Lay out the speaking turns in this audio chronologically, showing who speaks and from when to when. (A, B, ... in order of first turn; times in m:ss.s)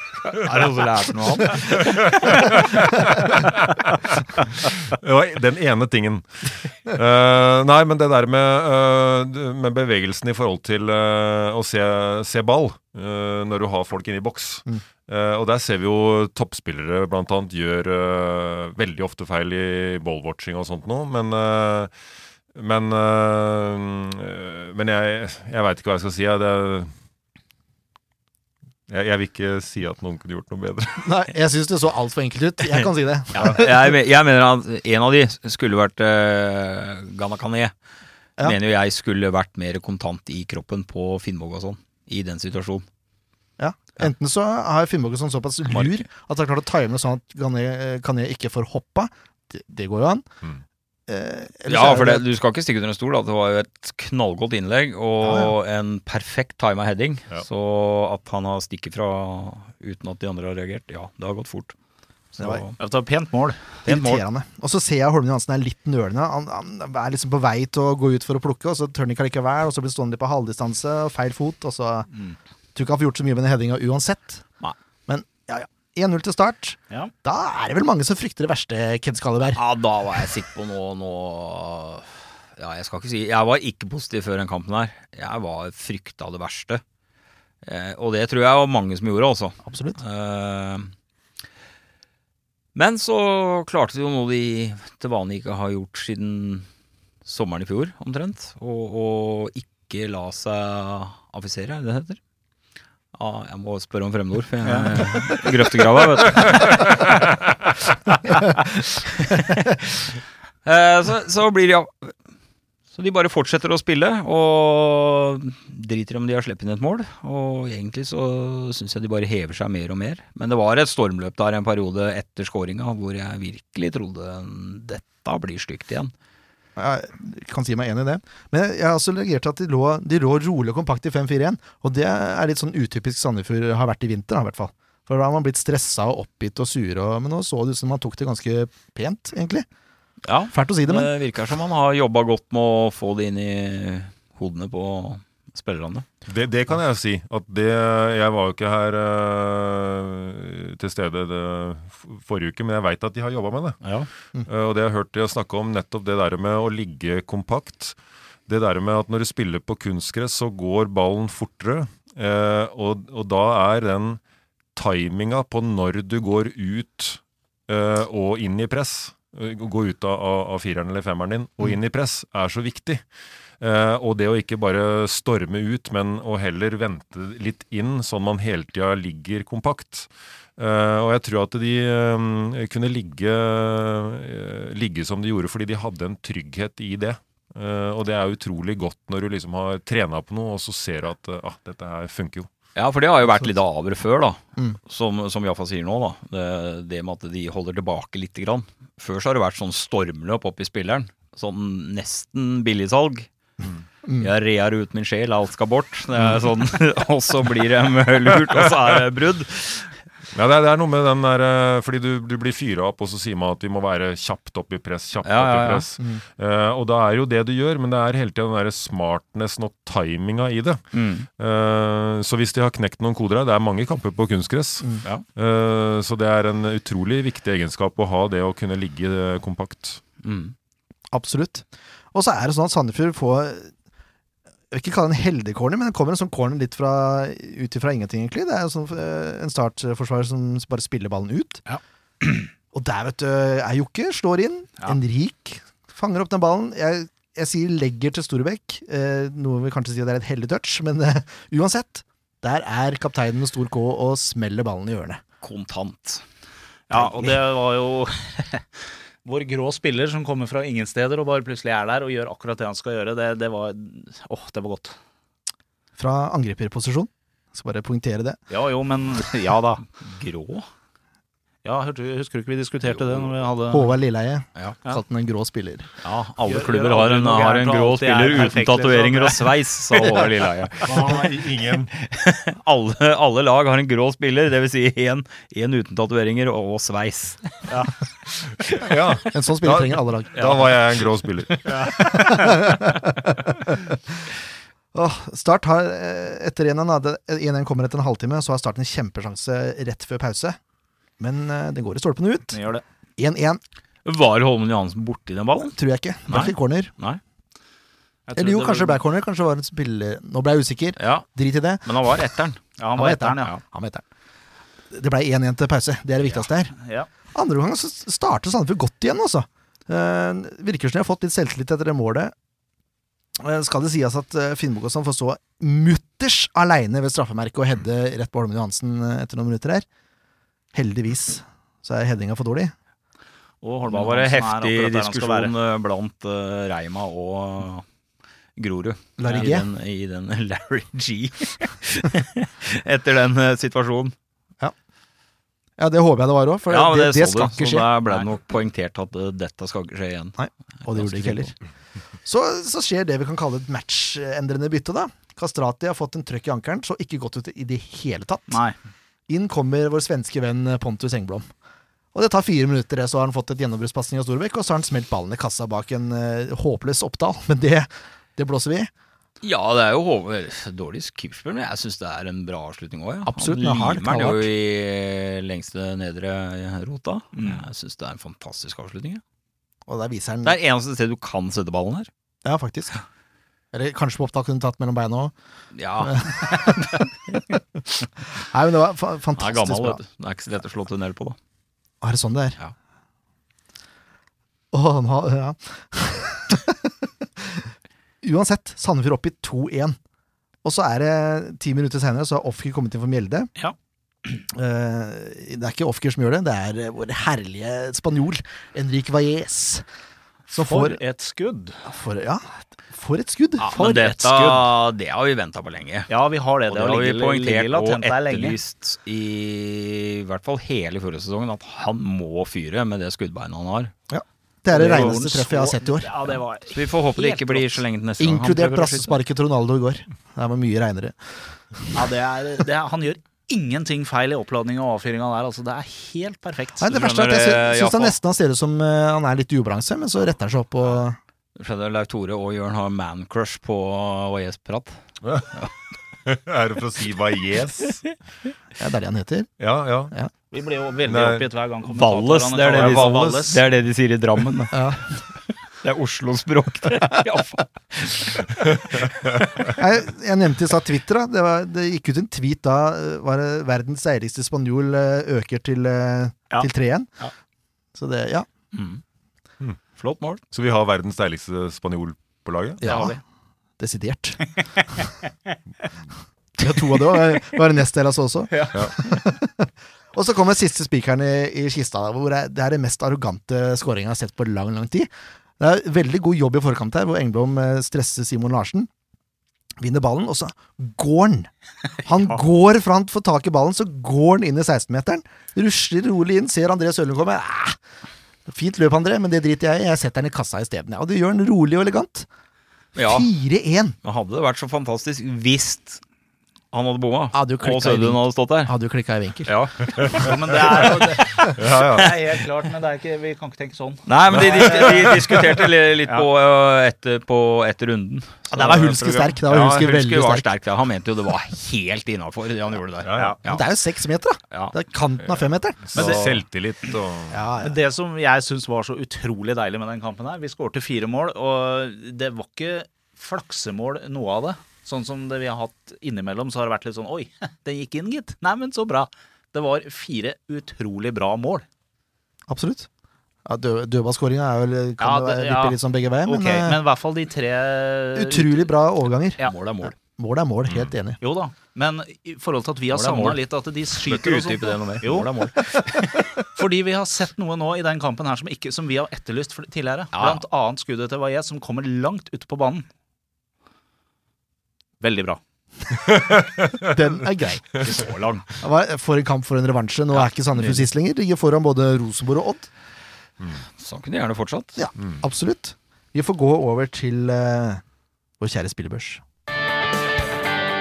0:00.2-0:02.4 A
0:01.8-0:04.2 B
0:04.8-0:21.9 B
0:22.5-0:26.9 B
0:28.9-0:31.1 B
0:31.0-0:33.9 C
0:33.3-0:37.7 A
0:38.4-0:42.8 A
0:43.6-0:50.3 C
0:45.7-0:46.0 B
0:51.1-0:52.2 C
0:51.7-1:01.7 A
0:55.2-0:55.5 C
1:02.3-1:02.8 A
1:02.4-1:02.6 C
1:02.8-1:04.2 D
1:03.8-1:12.1 C
1:12.1-1:12.4 D
1:12.7-1:14.4 C
1:15.1-1:19.6 C
1:19.5-1:26.8 A
1:27.6-1:30.9 A
1:29.6-1:30.0 C
1:32.7-1:36.7 A
1:37.2-1:42.2 A
1:43.1-1:46.9 A
1:44.6-1:45.8 D
1:49.3-1:52.2 A
1:52.9-2:06.1 A
2:06.8-2:19.6 C
2:20.2-2:26.0 A
2:20.5-2:21.1 C
2:26.3-2:33.9 B
2:33.8-2:34.1 A
2:34.4-2:38.0 B
2:38.5-2:44.2 B
2:44.7-2:53.0 B
2:53.6-3:12.5 B
3:12.7-3:23.3 A
3:24.0-3:24.3 C
3:24.2-3:30.0 A
3:30.3-3:40.8 B
3:35.2-3:35.9 A
3:40.9-3:41.3 A
3:41.4-3:50.0 B
3:50.2-3:50.5 A
3:51.1-3:53.7 C
3:54.7-4:01.6 C
4:01.7-4:02.5 D
4:02.7-4:15.2 C
4:15.4-4:16.2 A
4:16.9-4:25.0 D
4:16.9-4:17.3 C
4:26.0-4:28.4 C
4:28.5-4:29.8 D
4:30.0-4:30.7 A
4:31.6-4:33.9 D
4:32.8-4:33.3 A
4:33.7-4:35.9 C
4:36.0-4:41.4 A
4:36.4-4:40.3 D
4:40.8-4:41.9 B
4:41.9-4:47.8 A
4:48.6-4:51.8 B
4:48.7-4:48.9 A
4:49.3-4:50.7 C
4:51.6-4:52.6 D
4:52.0-4:54.2 C
4:54.9-5:00.6 C
5:01.2-5:02.6 C
5:02.5-5:02.8 D
5:03.2-5:03.6 C
5:04.0-5:05.7 A
5:05.6-5:06.9 C
5:06.3-5:07.2 A
5:08.3-5:09.0 D
5:08.4-5:11.9 C
5:11.0-5:11.2 A
5:11.8-5:12.6 A
5:12.8-5:13.5 D
5:13.0-5:14.0 C
5:14.9-5:16.7 C
5:16.2-5:17.1 D
5:17.3-5:22.3 C
5:23.4-5:29.8 C
5:30.7-5:32.7 C
5:33.6-5:35.5 D
5:33.8-5:37.8 A
5:38.6-5:44.1 A
5:39.2-5:39.7 C
5:45.8-5:47.9 C
5:46.7-5:51.5 A
5:50.4-5:51.6 C
5:52.2-5:58.6 C
5:58.5-5:58.7 D
5:59.3-6:01.5 C
6:02.1-6:08.9 C
6:09.4-6:19.2 A
6:13.2-6:14.5 C
6:17.3-6:17.6 D
6:19.9-6:20.6 C
6:20.4-6:22.1 A
6:22.4-6:23.0 C
6:23.7-6:25.3 C
6:25.7-6:26.8 A
6:26.0-6:27.4 C
6:28.4-6:30.0 C
6:29.4-6:31.4 A
6:32.0-6:32.6 C
6:34.7-6:37.7 C
6:38.2-6:40.0 C
6:40.6-6:43.5 C
6:44.5-6:49.8 C
6:50.5-6:51.0 C
6:50.6-6:51.8 D
6:51.8-6:54.7 C
6:53.6-6:56.1 A
6:56.1-6:58.6 D
6:56.7-7:03.9 A
7:04.1-7:06.1 C
7:04.7-7:07.8 D
7:04.7-7:05.2 A
7:06.2-7:09.2 A
7:08.2-7:12.0 C
7:11.9-7:16.9 D
7:16.8-7:21.2 C
7:16.9-7:18.2 A
7:21.6-7:25.7 A
7:25.2-7:25.6 B
7:26.2-7:28.1 B
7:28.8-7:29.5 C
7:29.6-7:30.1 B
7:30.5-7:33.6 D
7:31.0-7:31.4 B
7:31.9-7:34.9 A
7:32.7-7:33.4 B
7:34.7-7:35.0 C
7:35.8-7:39.1 A
7:38.7-7:39.7 B
7:39.7-7:47.1 C
7:46.5-7:47.3 D
7:47.9-7:48.4 C
7:48.7-7:49.0 A
7:50.0-7:50.4 A
7:50.5-7:52.9 B
7:52.8-7:53.2 C
7:52.8-7:53.2 D
7:53.8-7:54.4 C
7:56.6-8:08.9 C
7:58.5-7:58.8 D
8:09.8-8:11.5 C
8:12.0-8:17.8 C
8:18.5-8:22.3 C
8:22.9-8:23.3 A
8:23.0-8:23.9 C
8:24.0-8:26.0 A
8:26.7-8:28.7 A
8:27.3-8:30.2 C
8:29.4-8:32.1 A
8:30.1-8:35.4 D
8:31.4-8:32.2 B
8:34.0-8:43.6 A
8:34.3-8:35.4 B
8:38.5-8:40.5 C
8:43.0-8:43.4 B
8:43.4-8:46.2 C
8:45.8-8:47.4 B
8:45.9-8:47.0 D
8:47.3-8:47.8 C
8:47.6-9:01.6 D
9:02.5-9:02.9 C
9:03.4-9:06.8 C
9:05.0-9:08.7 D
9:08.1-9:11.2 C
9:09.4-9:09.9 A
9:11.2-9:15.6 D
9:12.9-9:13.4 A
9:13.9-9:16.2 A
9:16.5-9:22.8 D
9:20.1-9:20.4 A
9:25.0-9:25.4 D
9:26.2-9:26.9 B
9:26.8-9:27.8 C
9:27.8-9:28.6 D
9:28.6-9:32.7 C
9:30.6-9:30.8 D
9:33.8-9:34.8 A
9:34.8-9:37.8 C
9:35.0-9:35.2 B
9:38.4-9:39.2 C